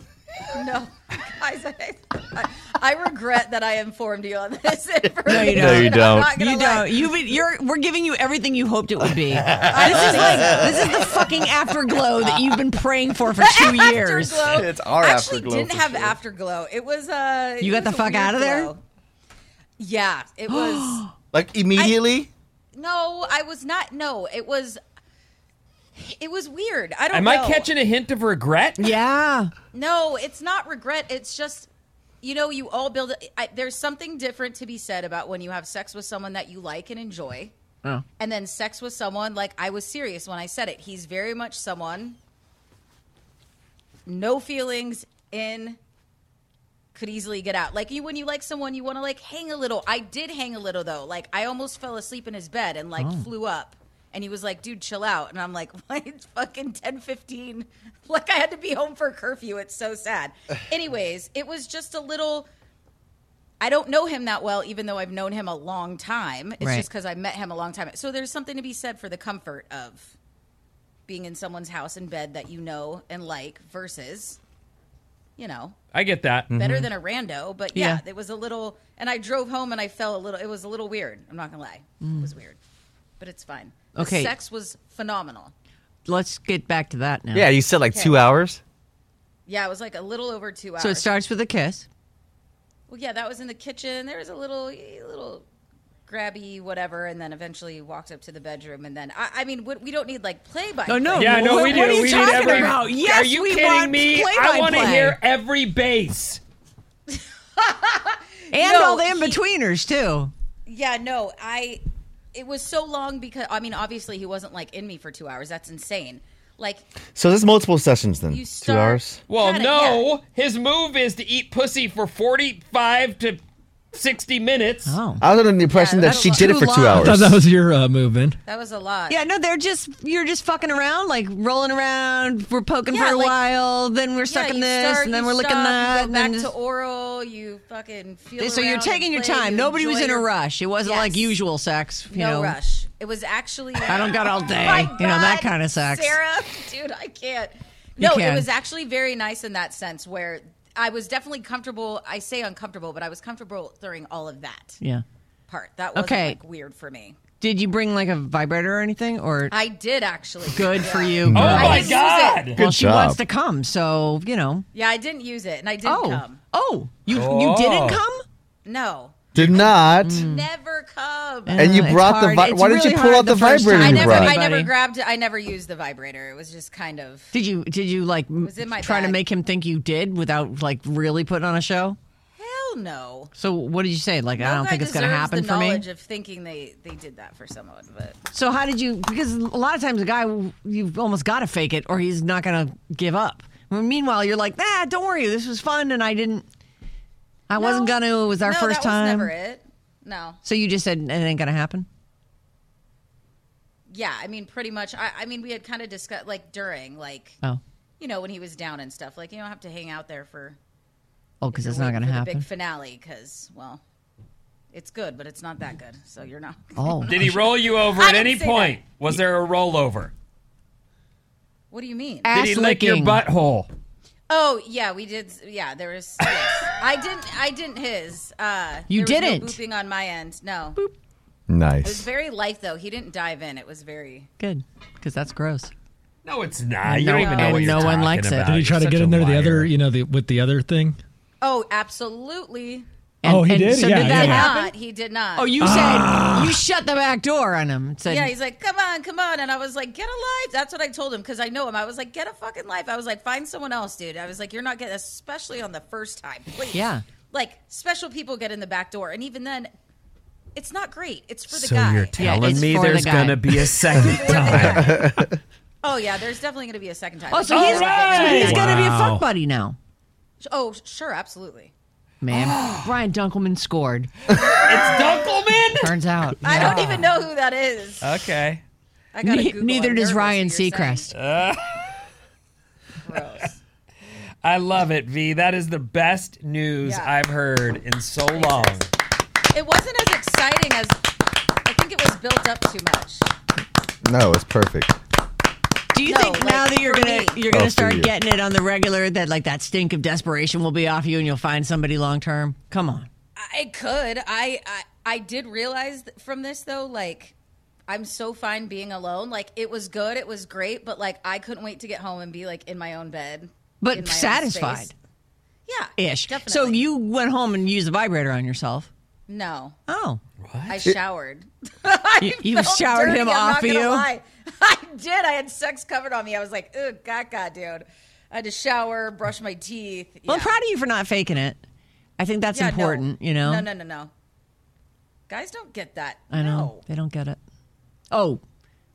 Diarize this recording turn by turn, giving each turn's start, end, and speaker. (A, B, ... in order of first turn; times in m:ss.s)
0:00.5-0:07.0 A
0:05.2-0:06.3 B
0:05.2-0:14.5 C
0:09.3-0:11.1 B
0:09.7-0:11.2 A
0:13.4-0:18.8 A
0:14.4-0:16.2 B
0:17.6-0:18.7 C
0:19.8-0:21.0 A
0:20.5-0:21.1 C
0:21.3-0:22.3 B
0:22.8-0:24.8 A
0:26.0-0:27.7 A
0:27.1-0:28.9 D
0:28.8-0:29.5 C
0:29.7-0:31.7 A
0:32.2-0:37.5 A
0:38.2-0:42.2 A
0:44.1-0:45.8 A
0:46.9-1:02.5 A
0:53.0-0:53.3 C
1:03.6-1:10.1 A
1:06.6-1:06.9 C
1:11.1-1:14.4 A
1:15.4-1:15.8 A
1:15.9-1:16.5 D
1:16.5-1:16.9 B
1:16.5-1:22.6 A
1:17.7-1:18.0 C
1:22.0-1:22.3 C
1:23.2-1:25.5 A
1:24.0-1:24.3 C
1:26.1-1:27.5 C
1:27.3-1:28.6 B
1:27.9-1:28.2 A
1:29.5-1:31.1 A
1:30.8-1:31.9 C
1:32.9-1:35.4 A
1:36.1-1:42.8 A
1:40.9-1:45.2 C
1:41.2-1:46.4 D
1:47.1-1:49.4 A
1:48.5-1:50.3 C
1:50.7-1:56.8 A
1:57.2-1:59.2 B
1:58.3-2:00.0 A
1:59.3-2:03.4 D
2:03.9-2:05.0 D
2:04.8-2:05.2 C
2:05.2-2:07.4 B
2:05.7-2:06.6 A
2:06.0-2:07.2 C
2:06.9-2:08.4 E
2:08.4-2:09.2 A
2:09.1-2:16.5 C
2:12.9-2:13.4 A
2:14.3-2:20.3 A
2:18.4-2:22.6 C
2:20.8-2:21.3 A
2:22.1-2:34.8 A
2:23.8-2:26.2 C
2:28.0-2:28.5 C
2:35.5-2:37.2 A
2:36.0-2:36.4 C
2:37.4-2:39.5 C
2:39.5-2:42.6 A
2:40.5-2:42.0 C
2:41.3-2:41.9 B
2:41.3-2:42.6 D
2:42.6-2:43.2 B
2:42.6-2:44.7 C
2:44.7-2:46.4 A
2:45.8-2:48.2 C
2:47.1-2:48.0 D
2:48.6-2:51.7 A
2:49.3-2:50.2 B
2:50.0-2:50.5 C
2:51.5-2:54.7 C
2:51.6-2:54.4 B
2:53.7-2:57.3 A
2:57.3-3:02.0 C
2:58.4-2:59.2 A
3:02.4-3:03.3 A
3:03.4-3:05.8 C
3:04.4-3:08.2 A
3:08.3-3:16.4 C
3:17.5-3:19.3 C
3:17.5-3:20.4 A
3:20.4-3:21.9 C
3:23.9-3:27.4 A
3:28.0-3:30.6 A
3:31.4-3:32.4 C
3:31.5-3:33.8 A
3:34.7-3:37.3 A
3:36.8-3:37.4 C
3:37.1-3:40.1 D
3:38.0-3:38.8 A
3:41.7-3:42.3 A
3:42.2-3:43.2 C
3:42.3-3:43.7 D
3:44.3-3:50.8 A
3:48.9-3:49.6 C
3:51.5-3:52.1 B
3:51.8-3:54.3 A
3:54.4-3:55.7 C
3:56.2-3:59.7 D
3:56.9-3:58.5 C
3:57.3-3:57.6 A
3:57.5-3:57.9 E
3:58.4-4:01.0 E
4:01.4-4:02.9 A
4:03.2-4:04.7 C
4:03.2-4:04.5 E
4:04.0-4:05.5 A
4:05.4-4:08.3 C
4:05.6-4:06.6 E
4:08.1-4:19.7 A
4:16.7-4:17.0 C
4:20.6-4:22.7 A
4:21.5-4:25.1 D
4:22.2-4:24.4 C
4:23.9-4:25.1 A
4:24.6-4:25.3 B
4:25.8-4:28.7 A
4:27.3-4:29.8 C
4:27.5-4:28.9 D
4:28.3-4:29.3 E
4:30.4-4:31.7 A
4:32.2-4:34.1 C
4:32.3-4:32.9 D
4:34.5-4:37.1 D
4:35.8-4:37.0 C
4:36.4-4:38.1 A
4:38.0-4:38.6 D
4:39.1-4:41.1 A
4:39.2-4:41.1 C
4:41.1-4:41.9 D
4:43.0-4:43.6 A
4:44.4-4:48.9 D
4:46.8-4:47.1 A
4:48.3-4:48.8 A
4:49.5-4:51.0 A
4:51.6-4:53.3 A
4:54.0-4:55.0 B
4:55.9-5:03.1 C
4:56.0-4:57.5 A
4:57.5-4:58.1 B
5:03.4-5:07.4 A
5:07.9-5:14.9 A
5:13.8-5:14.9 C
5:15.7-5:16.8 A
5:16.0-5:18.9 C
5:19.3-5:19.8 A
5:19.9-5:20.2 C
5:20.4-5:20.8 D
5:20.7-5:30.5 A
5:22.2-5:24.1 C
5:30.3-5:31.6 C
5:32.2-5:33.7 C
5:32.5-5:34.1 A
5:35.3-5:36.8 A
5:36.3-5:37.4 C
5:38.1-5:38.4 C